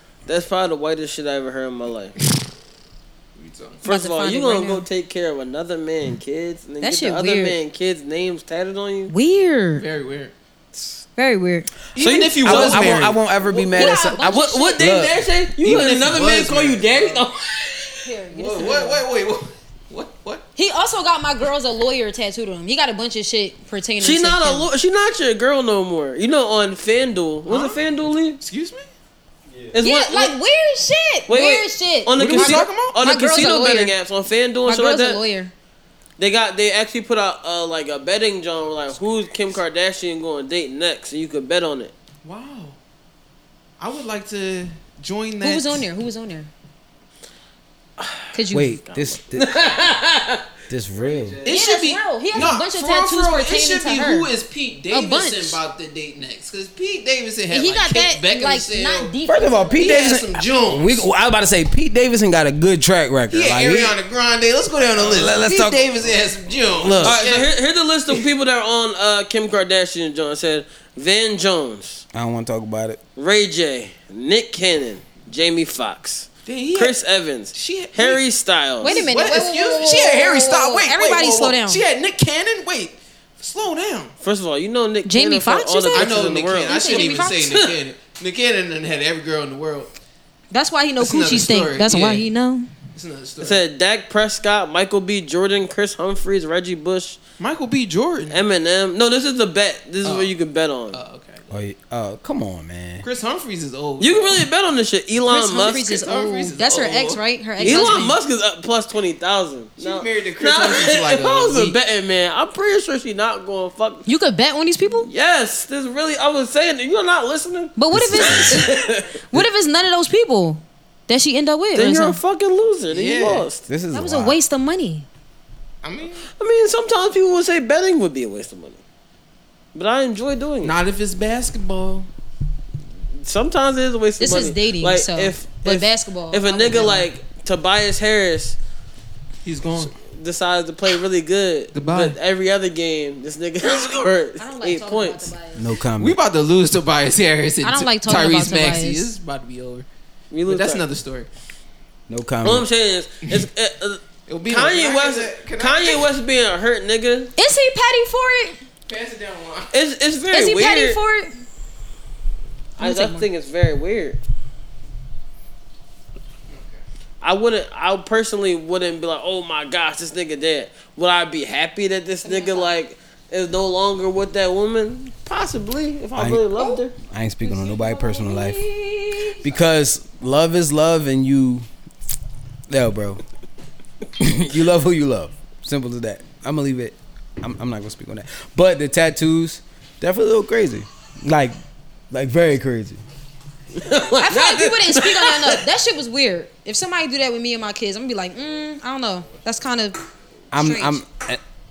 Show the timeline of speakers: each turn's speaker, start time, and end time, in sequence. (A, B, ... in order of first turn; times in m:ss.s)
0:00.3-0:02.1 A
0:03.4-0:03.8 B
0:03.8-0:09.1 A
0:03.8-0:04.9 C
0:06.8-0:07.6 C
0:09.1-0:09.9 C
0:09.7-0:10.3 B
0:11.2-0:11.7 C
0:12.0-0:13.2 B
0:12.0-0:18.1 A
0:12.4-0:15.2 D
0:13.7-0:14.8 C
0:15.6-0:17.3 B
0:18.0-0:19.0 C
0:18.3-0:20.4 B
0:20.6-0:24.7 C
0:24.0-0:28.4 A
0:27.5-0:27.8 B
0:28.4-0:28.9 B
0:29.7-0:30.4 A
0:29.8-0:33.9 C
0:31.3-0:35.2 A
0:32.2-0:33.0 B
0:34.7-0:35.5 C
0:36.2-0:41.9 A
0:42.2-0:42.8 B
0:43.8-0:45.9 B
0:45.4-0:46.5 C
0:48.0-0:48.4 A
0:48.3-0:48.8 C
0:48.5-0:49.8 D
0:48.9-0:50.5 A
0:50.7-0:51.4 D
0:51.0-0:59.2 B
0:51.5-0:54.3 C
0:54.9-0:55.6 C
0:57.5-0:59.8 C
0:59.3-1:04.0 D
0:59.7-1:01.0 B
1:03.3-1:07.5 B
1:05.0-1:06.0 D
1:06.8-1:07.2 D
1:07.0-1:12.0 A
1:12.1-1:13.0 D
1:13.2-1:19.0 A
1:16.5-1:17.0 B
1:17.5-1:18.2 B
1:18.8-1:21.8 C
1:18.8-1:24.1 B
1:24.2-1:27.7 A
1:25.1-1:27.4 C
1:25.9-1:29.9 B
1:30.5-1:32.7 C
1:31.0-1:32.3 B
1:33.0-1:33.6 B
1:33.4-1:37.2 A
1:37.4-1:38.4 B
1:38.3-1:41.0 A
1:40.0-1:40.3 B
1:40.9-1:41.5 B
1:41.5-1:43.1 D
1:43.0-1:44.4 B
1:44.0-1:46.0 A
1:45.3-1:48.2 C
1:45.9-1:48.1 B
1:47.6-1:54.0 A
1:49.8-1:51.8 B
1:54.1-1:55.1 C
1:55.1-1:59.2 A
1:57.8-1:58.8 C
1:57.9-1:58.6 D
1:59.3-2:02.2 C
2:01.8-2:03.6 A
2:02.9-2:03.5 B
2:03.7-2:04.4 D
2:03.9-2:05.1 C
2:05.8-2:06.3 B
2:06.4-2:08.8 A
2:09.8-2:10.8 A
2:10.6-2:12.1 B
2:13.2-2:18.6 A
2:14.2-2:17.1 C
2:19.4-2:19.9 B
2:20.0-2:25.3 A
2:21.7-2:22.2 B
2:24.4-2:25.6 C
2:25.6-2:26.2 D
2:26.0-2:29.9 B
2:27.6-2:29.1 C
2:30.3-2:30.8 A
2:30.4-2:31.3 B
2:32.1-2:32.7 D
2:32.4-2:37.3 A
2:34.3-2:36.1 B
2:37.4-2:38.6 C
2:38.9-2:39.7 B
2:39.7-2:41.0 A
2:40.3-2:41.4 C
2:42.8-2:43.3 C
2:42.8-2:44.2 A
2:46.5-2:46.8 B
2:47.2-2:56.9 A
2:52.2-2:52.7 C
2:56.2-2:58.6 D
2:57.4-2:59.4 C
2:59.4-3:01.7 D
3:02.7-3:03.2 D
3:04.2-3:11.6 D
3:12.1-3:13.0 D
3:13.8-3:15.6 A
3:14.2-3:20.0 C
3:20.5-3:21.4 D
3:20.6-3:21.0 C